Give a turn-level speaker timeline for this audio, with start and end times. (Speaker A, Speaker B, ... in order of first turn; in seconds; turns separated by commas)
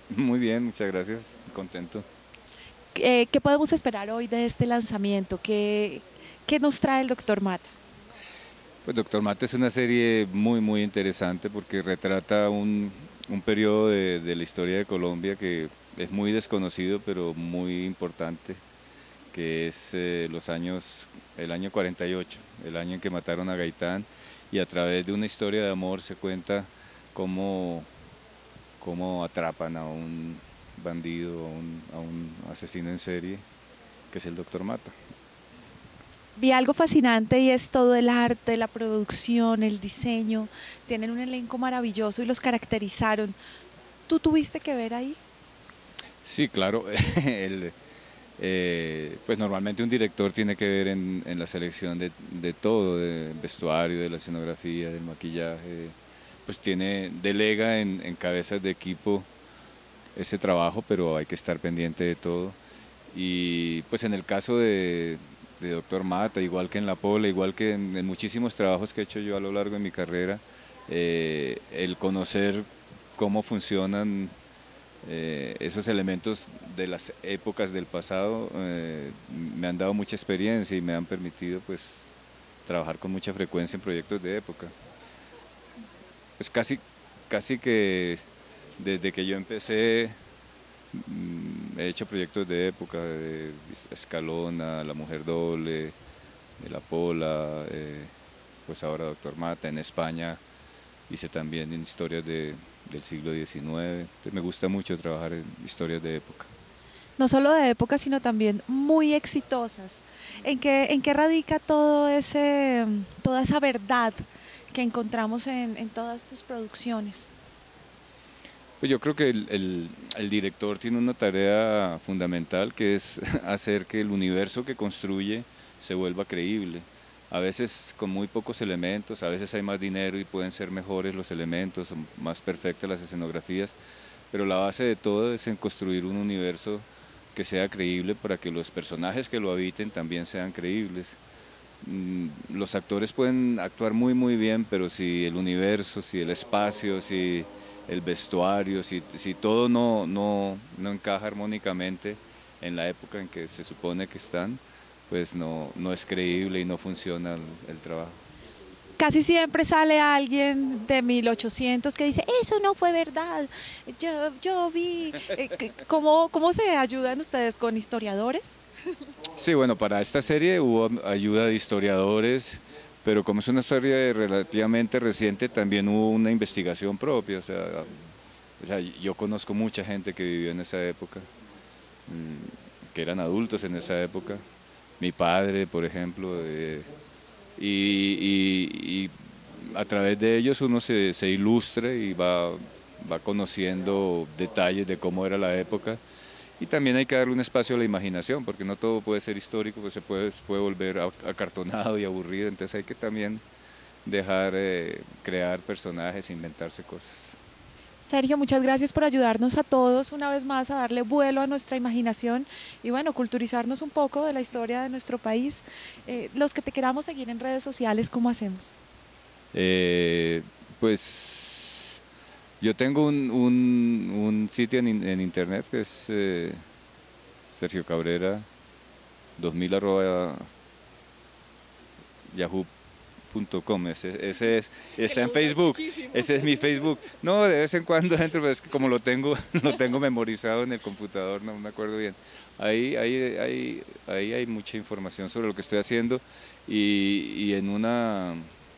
Speaker A: 0.1-2.0, Speaker B: 3.0-7.7, Speaker A: 8.8-18.6, Speaker A: 19.3-27.9, Speaker A: 28.8-33.4, Speaker A: 34.1-34.9, Speaker B: 36.4-43.4, Speaker B: 44.1-45.2, Speaker A: 46.2-47.7, Speaker A: 48.4-56.0, Speaker A: 56.5-59.3, Speaker A: 60.2-62.6, Speaker A: 63.1-74.3, Speaker A: 75.0-82.1, Speaker A: 82.7-84.7, Speaker A: 86.4-88.2, Speaker A: 88.8-90.1, Speaker A: 90.9-96.0, Speaker A: 96.6-98.1, Speaker A: 98.7-100.4, Speaker A: 101.1-106.5, Speaker B: 107.2-114.2, Speaker B: 114.7-117.3, Speaker A: 118.8-133.8, Speaker A: 134.3-141.2, Speaker A: 141.8-158.2, Speaker B: 159.0-168.6, Speaker A: 169.4-177.9, Speaker A: 178.6-181.3, Speaker A: 182.1-184.4, Speaker A: 185.0-186.9, Speaker A: 187.6-196.0, Speaker A: 196.6-203.4, Speaker A: 204.1-207.4, Speaker B: 208.1-218.7, Speaker A: 219.5-222.0, Speaker A: 222.6-226.6, Speaker A: 227.5-228.5, Speaker A: 229.4-230.5, Speaker A: 232.3-232.7, Speaker A: 233.3-248.4